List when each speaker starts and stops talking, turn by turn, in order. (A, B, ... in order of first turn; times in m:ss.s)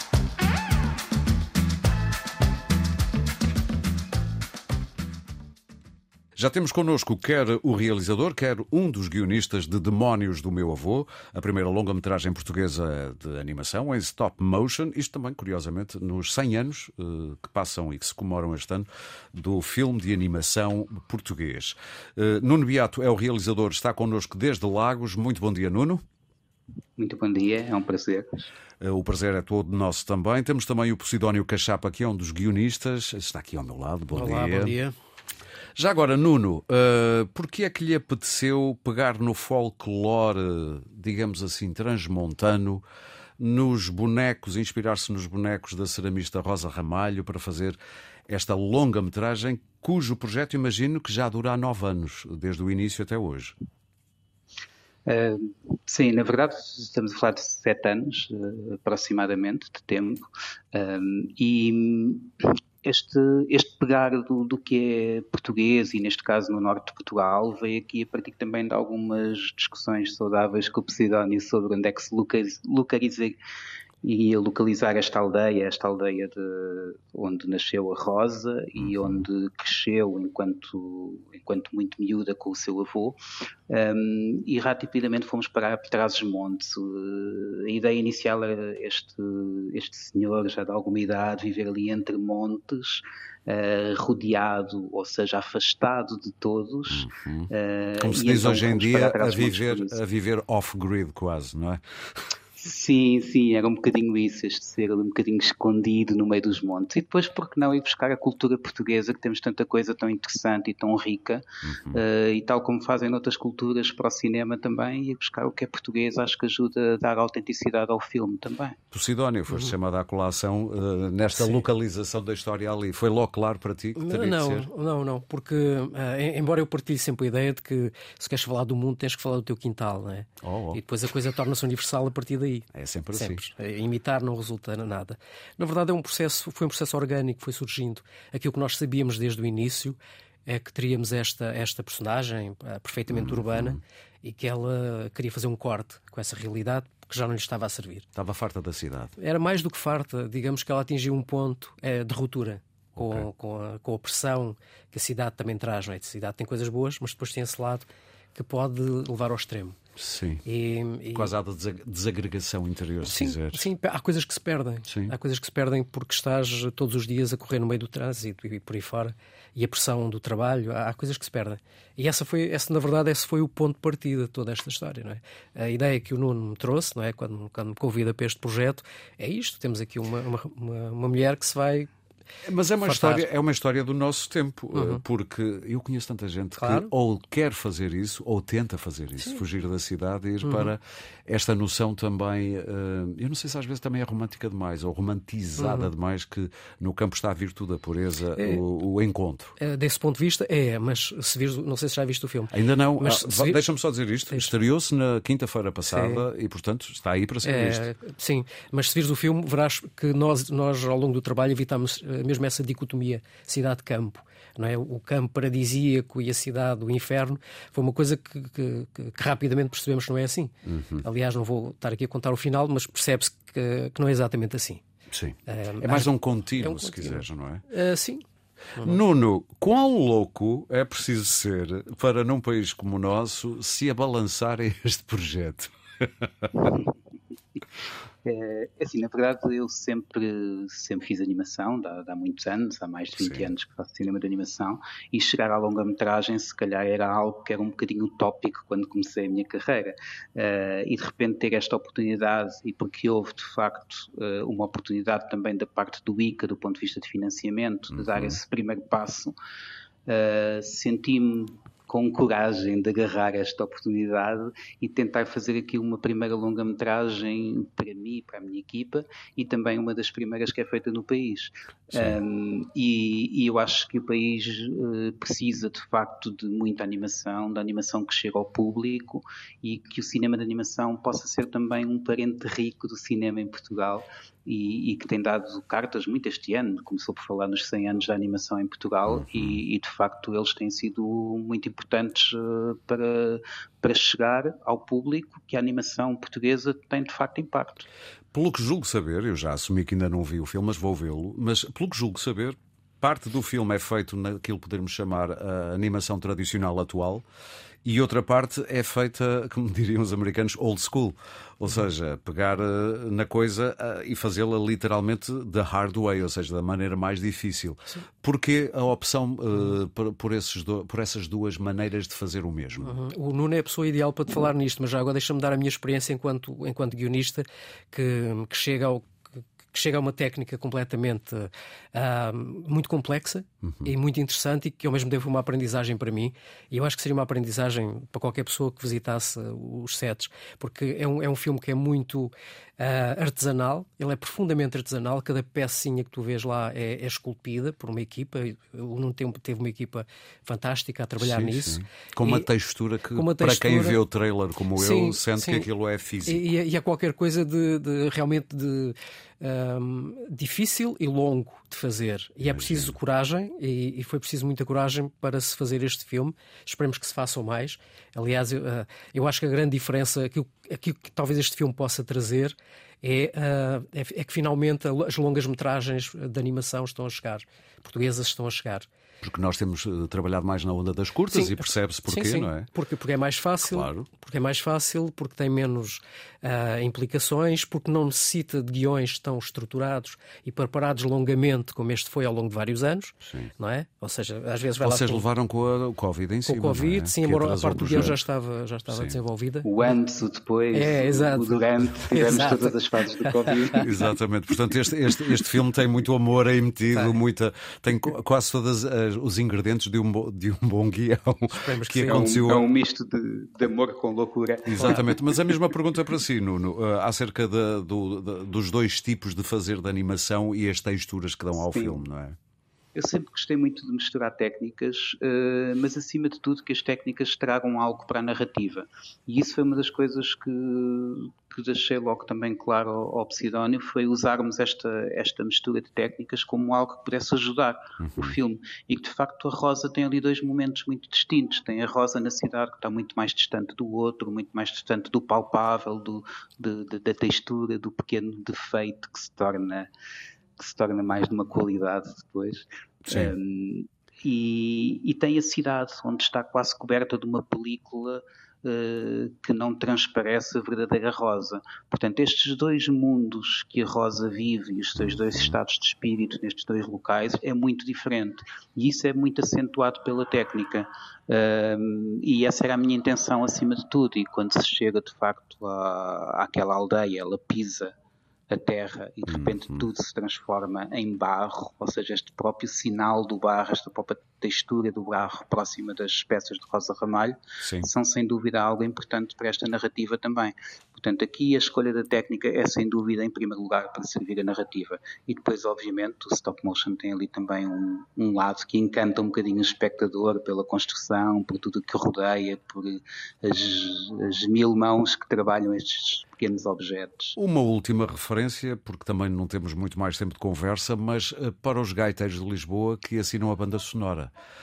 0:06.4-0:26.0 A
0:27.0-0:28.4 B
0:28.8-0:34.8 A
0:34.1-0:34.9 C
0:35.8-0:42.8 A
0:43.4-0:53.5 A
0:55.0-1:13.4 B
1:14.0-1:23.2 B
1:18.8-1:19.1 A
1:23.7-1:40.0 B
1:36.9-1:41.8 A
1:42.6-1:58.8 B
1:51.6-1:52.0 A
1:58.9-2:04.7 A
2:01.3-2:01.6 C
2:04.0-2:28.1 C
2:10.4-2:10.8 A
2:12.7-2:13.4 A
2:23.1-2:23.8 A
2:28.1-2:29.1 A
2:29.2-2:39.8 C
2:33.0-2:33.2 A
2:40.0-2:40.4 A
2:40.4-2:41.3 C
2:41.1-2:43.7 A
2:43.0-3:01.9 C
2:44.9-2:45.1 A
3:02.4-3:19.5 A
3:02.8-3:03.2 C
3:04.7-3:05.0 C
3:06.6-3:06.9 C
3:10.4-3:10.7 C
3:15.6-3:15.9 C
3:18.4-3:18.6 C
3:19.6-3:23.6 C
3:22.5-3:27.8 A
3:25.9-3:26.2 C
3:27.4-3:44.8 C
3:40.6-3:41.0 A
3:45.1-3:47.6 A
3:45.5-3:48.2 C
3:48.8-3:56.7 A
3:58.2-4:19.3 B
4:03.2-4:03.5 A
4:17.9-4:18.4 A
4:20.1-4:57.9 B
4:49.2-4:49.6 A
4:58.3-5:07.2 A
5:07.8-5:23.0 A
5:22.8-5:29.1 C
5:29.7-5:52.5 C
5:33.6-5:33.9 A
5:51.2-5:56.4 A
5:53.1-5:54.0 C
5:54.8-5:55.7 C
5:56.2-6:18.9 C
6:02.4-6:02.9 A
6:19.2-6:22.7 A
6:21.3-6:35.2 C
6:23.6-6:24.0 A
6:34.8-6:38.2 A
6:36.4-6:39.9 C
6:38.9-6:39.2 A
6:39.6-6:43.8 B
6:40.7-6:44.1 C
6:43.7-6:52.6 A
6:46.9-6:47.2 C
6:51.5-6:52.4 C
6:52.1-6:55.6 B
6:54.6-7:02.4 A
7:01.6-7:02.0 B
7:02.9-7:29.9 B
7:18.0-7:18.4 A
7:30.6-7:57.9 B
7:33.0-7:33.3 A
7:58.5-8:27.4 B
7:59.3-7:59.8 A
8:07.6-8:07.9 A
8:27.4-8:34.3 A